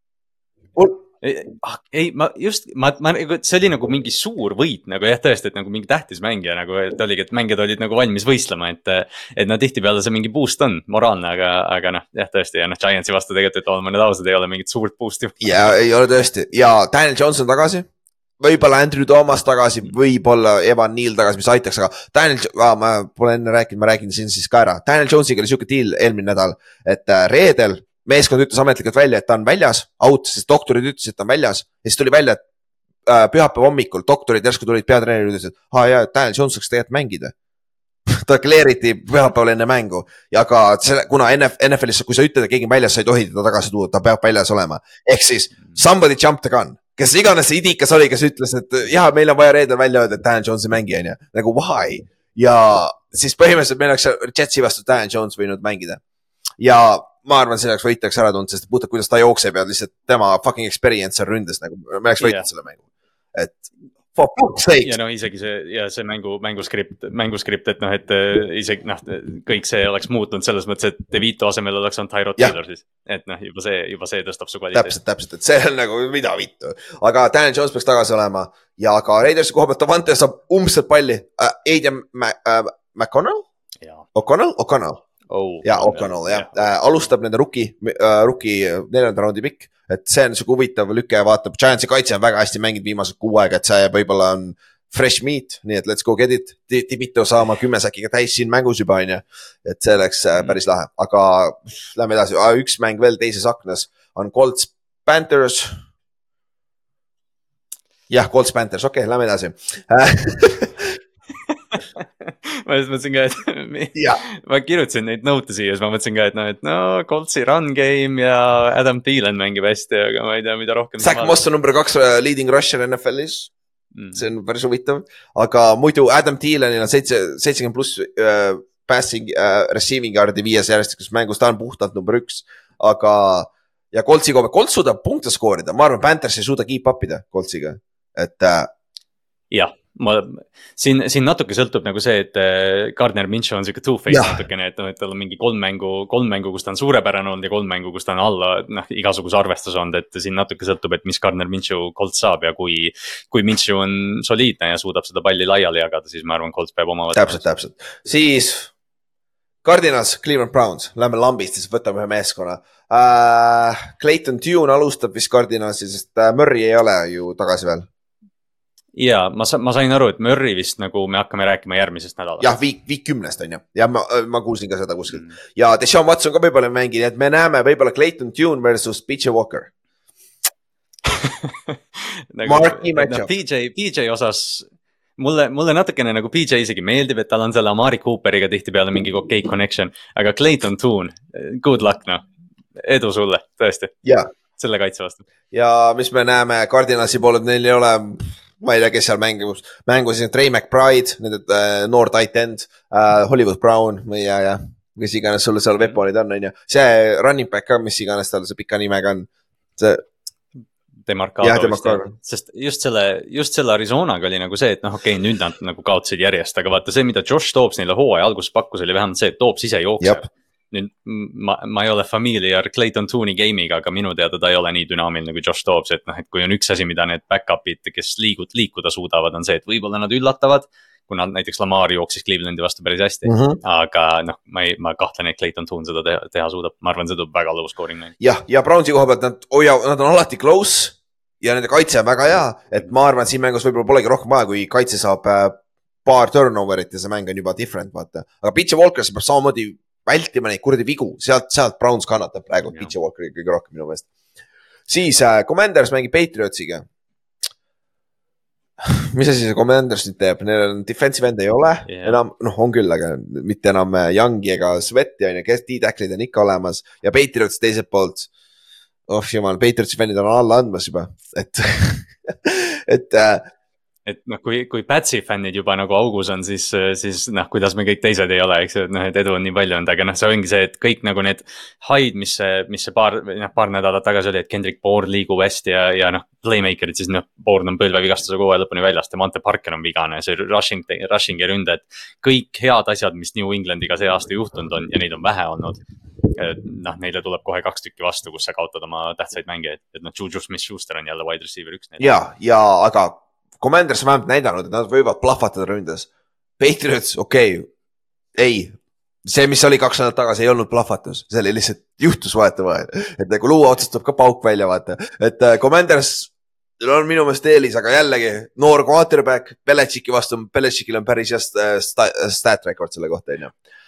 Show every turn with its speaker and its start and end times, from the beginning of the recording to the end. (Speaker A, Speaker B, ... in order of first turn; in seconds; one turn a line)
Speaker A: 0.8-1.0
Speaker B: 1.2-15.8
Speaker A: 15.4-17.9
Speaker A: 18.4-32.4
Speaker A: 33.1-37.3
Speaker A: 38.1-56.0
Speaker A: 56.6-62.8
Speaker B: 62.2-62.5
Speaker A: 63.4-65.0
Speaker B: 64.8-75.0
Speaker A: 74.7-83.5
Speaker A: 84.2-85.0
Speaker B: 85.3-86.5
Speaker A: 85.6-105.8
Speaker A: 108.1-111.0
Speaker B: 111.7-121.4
Speaker A: 114.0-114.2
Speaker A: 121.0-123.5
Speaker B: 124.0-124.3
Speaker A: 124.2-138.7
Speaker B: 139.5-157.5
Speaker A: 144.1-144.4
Speaker A: 157.1-158.7
Speaker A: 159.6-167.9
Speaker B: 169.0-172.6
Speaker A: 172.4-179.7
Speaker B: 181.1-192.2
Speaker A: 182.5-183.3
Speaker B: 192.8-193.9
Speaker B: 194.6-195.2
Speaker A: 195.5-210.0
Speaker B: 211.1-238.1
Speaker A: 211.4-212.1
Speaker A: 233.2-233.6
Speaker A: 238.2-254.1
Speaker A: 254.9-256.9
Speaker A: 258.8-268.3
Speaker B: 261.9-262.2
Speaker A: 269.1-273.5
Speaker B: 274.1-302.1
Speaker A: 302.0-307.7
Speaker A: 308.4-323.5